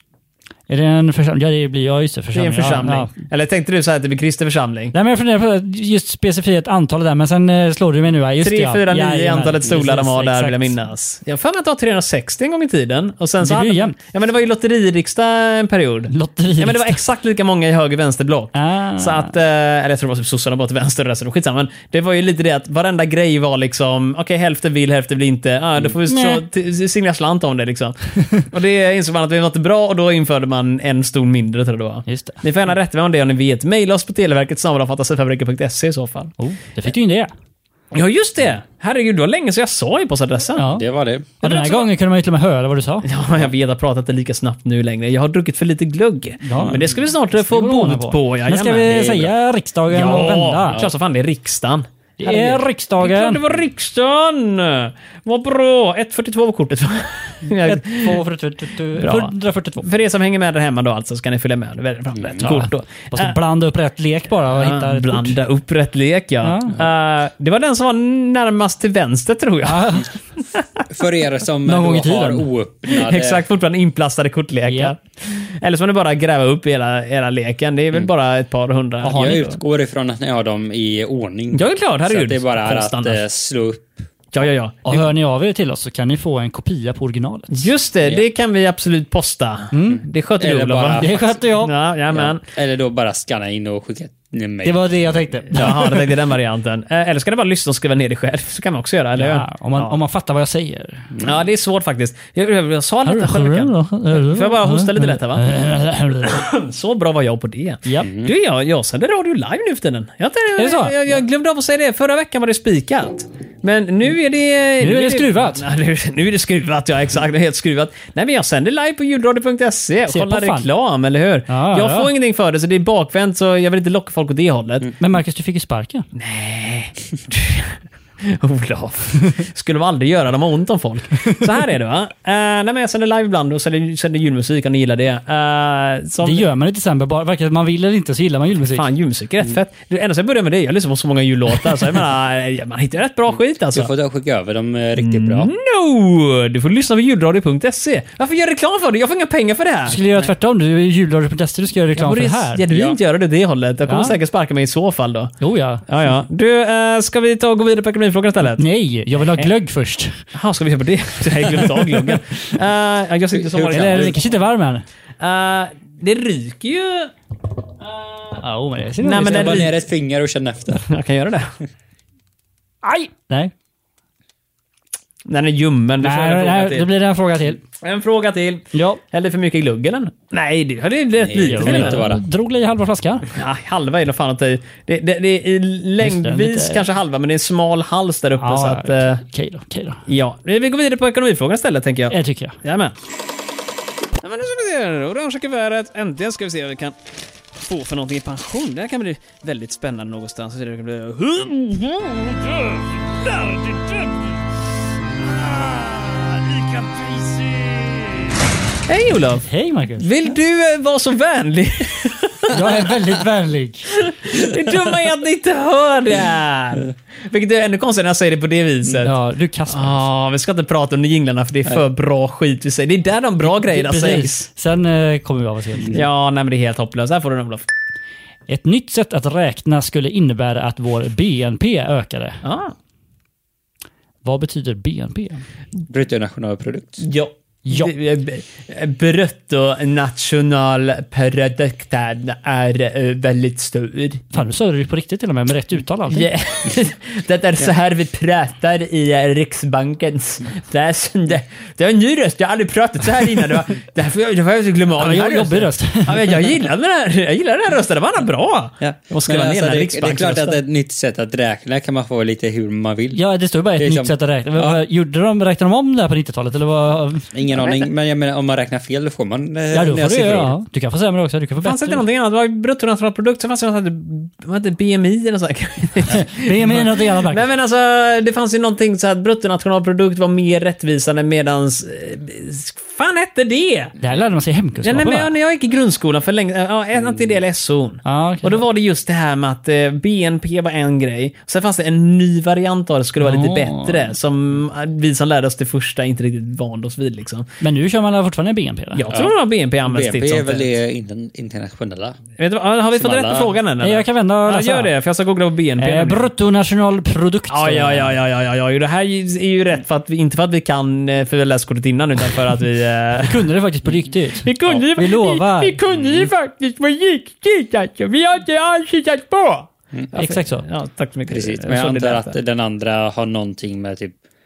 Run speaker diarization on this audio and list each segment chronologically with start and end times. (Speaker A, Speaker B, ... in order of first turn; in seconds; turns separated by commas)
Speaker A: 0.7-3.1, Speaker B: 2.3-4.9, Speaker A: 4.9-10.8, Speaker B: 8.4-36.3, Speaker A: 13.4-14.0, Speaker A: 16.1-17.0, Speaker A: 18.6-19.3, Speaker A: 26.1-26.4, Speaker A: 32.1-32.4, Speaker A: 36.4-37.3, Speaker B: 37.9-40.7, Speaker A: 40.6-40.9, Speaker C: 40.7-41.3, Speaker B: 41.4-41.9, Speaker A: 41.4-43.1, Speaker B: 43.0-49.3, Speaker A: 46.4-50.8, Speaker C: 46.6-46.9, Speaker B: 49.9-58.2, Speaker A: 52.2-53.4, Speaker A: 57.6-59.9, Speaker B: 59.0-63.4, Speaker C: 62.2-62.5, Speaker A: 62.4-65.4, Speaker B: 64.6-70.6, Speaker A: 66.4-66.8, Speaker A: 69.7-70.1, Speaker C: 70.9-73.4, Speaker A: 71.7-72.5, Speaker B: 72.9-79.6, Speaker A: 74.7-75.0, Speaker C: 79.0-83.9, Speaker B: 81.5-83.2, Speaker B: 84.3-85.0, Speaker A: 84.8-87.6, Speaker B: 87.5-92.4, Speaker A: 89.7-90.0, Speaker C: 90.4-91.4, Speaker A: 91.0-91.7, Speaker C: 92.1-94.8, Speaker A: 94.6-96.0, Speaker B: 95.5-100.0, Speaker A: 99.2-101.1, Speaker C: 101.1-101.4, Speaker B: 101.2-105.5, Speaker A: 103.0-106.5, Speaker B: 106.2-124.9, Speaker A: 107.8-108.1, Speaker C: 108.0-108.3, Speaker A: 110.6-111.0, Speaker A: 114.8-115.6, Speaker A: 120.1-120.7, Speaker A: 121.5-122.1, Speaker A: 125.0-126.1, Speaker B: 126.1-136.5, Speaker A: 136.2-138.9, Speaker B: 138.7-143.9, Speaker C: 143.7-145.5, Speaker B: 145.0-150.0, Speaker A: 149.9-152.6, Speaker B: 151.9-155.3, Speaker C: 152.7-153.0, Speaker A: 153.9-154.2, Speaker A: 155.4-155.8, Speaker B: 155.9-158.6, Speaker A: 158.6-160.2, Speaker B: 160.3-164.3, Speaker C: 163.3-164.2, Speaker A: 163.7-164.8, Speaker B: 165.2-167.1, Speaker B: 167.8-168.4, Speaker A: 168.4-169.7, Speaker B: 169.0-169.8, Speaker C: 169.3-170.8, Speaker B: 170.9-171.5, Speaker A: 172.8-173.5, Speaker B: 175.3-176.9, Speaker A: 176.0-177.6, Speaker B: 177.8-182.1, Speaker A: 178.7-179.0, Speaker C: 181.2-182.2, Speaker A: 181.5-183.3, Speaker B: 183.3-189.2, Speaker A: 186.0-186.8, Speaker A: 188.4-190.0, Speaker B: 190.1-192.9, Speaker A: 192.1-192.6, Speaker B: 194.2-197.0, Speaker B: 197.6-204.3, Speaker B: 205.9-206.2, Speaker A: 207.0-208.1, Speaker B: 208.9-209.5, Speaker A: 209.4-210.1, Speaker B: 210.0-212.8, Speaker A: 212.5-213.9, Speaker B: 213.9-219.1, Speaker A: 219.0-220.1, Speaker B: 219.7-224.5, Speaker A: 223.5-226.1, Speaker B: 225.9-227.7, Speaker A: 228.5-232.4, Speaker B: 232.4-232.7, Speaker A: 234.2-235.4, Speaker C: 235.9-237.0, Speaker B: 237.0-244.2, Speaker A: 237.7-237.9, Speaker A: 244.3-246.3, Speaker B: 246.1-260.6, Speaker A: 255.0-256.3, Speaker C: 258.8-263.2, Speaker A: 263.1-267.3, Speaker C: 263.8-264.8, Speaker C: 267.3-270.5, Speaker A: 269.7-272.0, Speaker B: 271.6-283.9, Speaker A: 276.1-277.5, Speaker A: 284.0-285.3, Speaker B: 284.8-297.5, Speaker A: 288.1-288.6, Speaker A: 293.2-294.1, Speaker A: 297.6-299.1, Speaker B: 299.0-300.7, Speaker C: 299.9-302.2, Speaker B: 302.4-306.3, Speaker C: 302.9-303.5, Speaker A: 303.8-304.9, Speaker A: 305.8-308.2, Speaker B: 307.5-313.5, Speaker A: 313.2-315.8, Speaker B: 314.4-322.4, Speaker A: 320.1-320.6, Speaker C: 321.3-324.2